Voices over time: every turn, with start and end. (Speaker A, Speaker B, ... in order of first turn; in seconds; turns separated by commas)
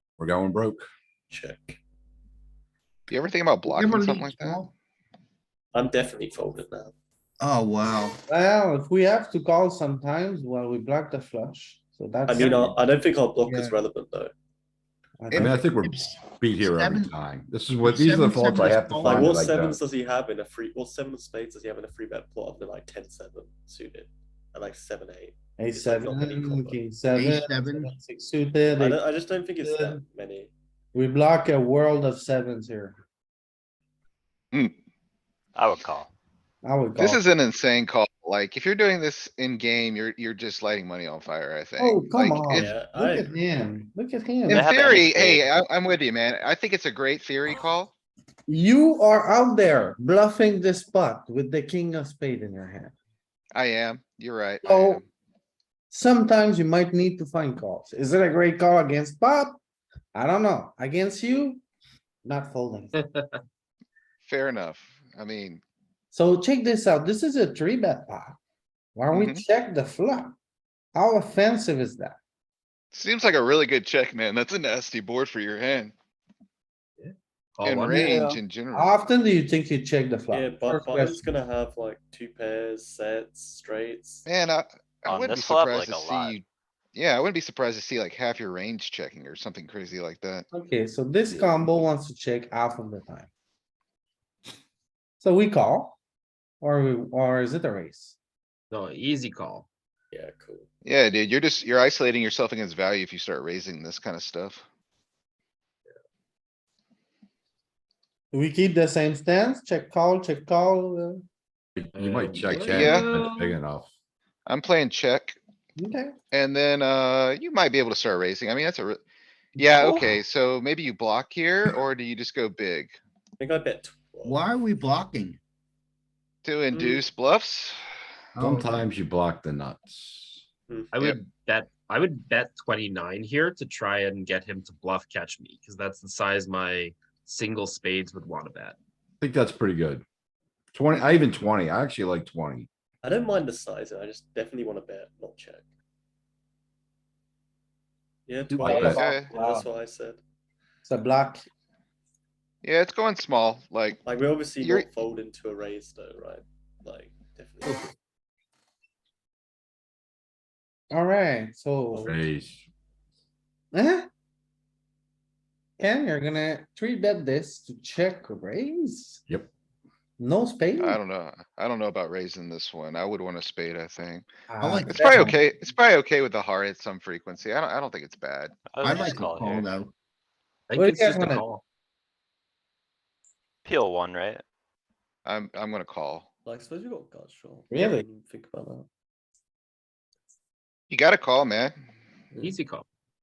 Speaker A: 0.2-0.8, Speaker B: 1.3-1.8, Speaker C: 3.1-4.6, Speaker D: 3.7-4.7, Speaker B: 5.7-6.9, Speaker D: 7.4-8.2, Speaker E: 8.3-12.8, Speaker B: 12.3-14.3, Speaker D: 13.4-13.8, Speaker E: 15.2-15.6, Speaker D: 15.3-17.1, Speaker A: 15.4-19.8, Speaker D: 17.8-19.3, Speaker B: 19.0-26.8, Speaker E: 25.6-29.0, Speaker D: 27.1-27.9, Speaker B: 28.8-30.5, Speaker E: 29.6-30.0, Speaker E: 30.9-33.0, Speaker F: 35.6-36.1, Speaker E: 36.6-37.2, Speaker C: 37.0-42.8, Speaker E: 41.8-44.7, Speaker B: 42.5-43.3, Speaker C: 44.5-47.9, Speaker F: 44.5-45.4, Speaker E: 48.5-52.9, Speaker C: 53.5-55.0, Speaker E: 54.6-55.0, Speaker E: 55.9-59.6, Speaker E: 60.1-61.6, Speaker E: 62.2-62.9, Speaker C: 64.2-65.6, Speaker E: 66.1-68.4, Speaker E: 69.0-70.3, Speaker C: 69.1-69.4, Speaker E: 71.0-72.2, Speaker C: 72.9-75.9, Speaker G: 77.0-78.1, Speaker C: 77.6-79.0, Speaker E: 78.0-81.3, Speaker B: 80.3-84.3, Speaker C: 84.3-90.5, Speaker F: 85.1-86.3, Speaker E: 90.5-93.3, Speaker E: 95.2-96.0, Speaker E: 96.6-98.2, Speaker G: 98.7-99.7, Speaker B: 100.1-100.7, Speaker C: 100.8-104.6, Speaker E: 108.3-111.2, Speaker A: 111.8-113.9, Speaker G: 111.9-113.5, Speaker C: 112.7-113.2, Speaker C: 114.5-115.4, Speaker E: 115.8-116.2, Speaker C: 116.3-119.0, Speaker C: 119.6-123.0, Speaker D: 119.6-120.1, Speaker B: 123.4-124.5, Speaker D: 124.2-125.4, Speaker C: 126.5-127.8, Speaker B: 126.7-127.0, Speaker D: 128.4-128.9, Speaker A: 128.4-130.4, Speaker G: 130.9-138.8, Speaker A: 139.2-140.1, Speaker A: 140.7-142.7, Speaker B: 143.0-145.6, Speaker B: 148.3-150.2, Speaker E: 148.5-149.7, Speaker A: 148.6-149.0, Speaker C: 148.9-149.3, Speaker E: 150.8-151.4, Speaker C: 152.6-154.0, Speaker B: 154.1-157.9, Speaker C: 154.6-154.9, Speaker E: 160.9-162.1, Speaker B: 161.9-162.2, Speaker A: 162.1-162.7, Speaker E: 163.7-164.1, Speaker E: 165.8-169.2, Speaker E: 170.2-171.0, Speaker C: 170.8-174.3, Speaker E: 174.5-175.3, Speaker D: 174.6-175.4, Speaker C: 174.9-179.1, Speaker F: 178.7-179.7, Speaker D: 178.8-179.9, Speaker G: 180.7-181.6, Speaker E: 180.7-181.5, Speaker F: 183.7-184.4, Speaker C: 185.2-186.3, Speaker B: 186.5-188.9, Speaker E: 187.7-188.1, Speaker C: 190.9-191.8, Speaker G: 192.4-192.8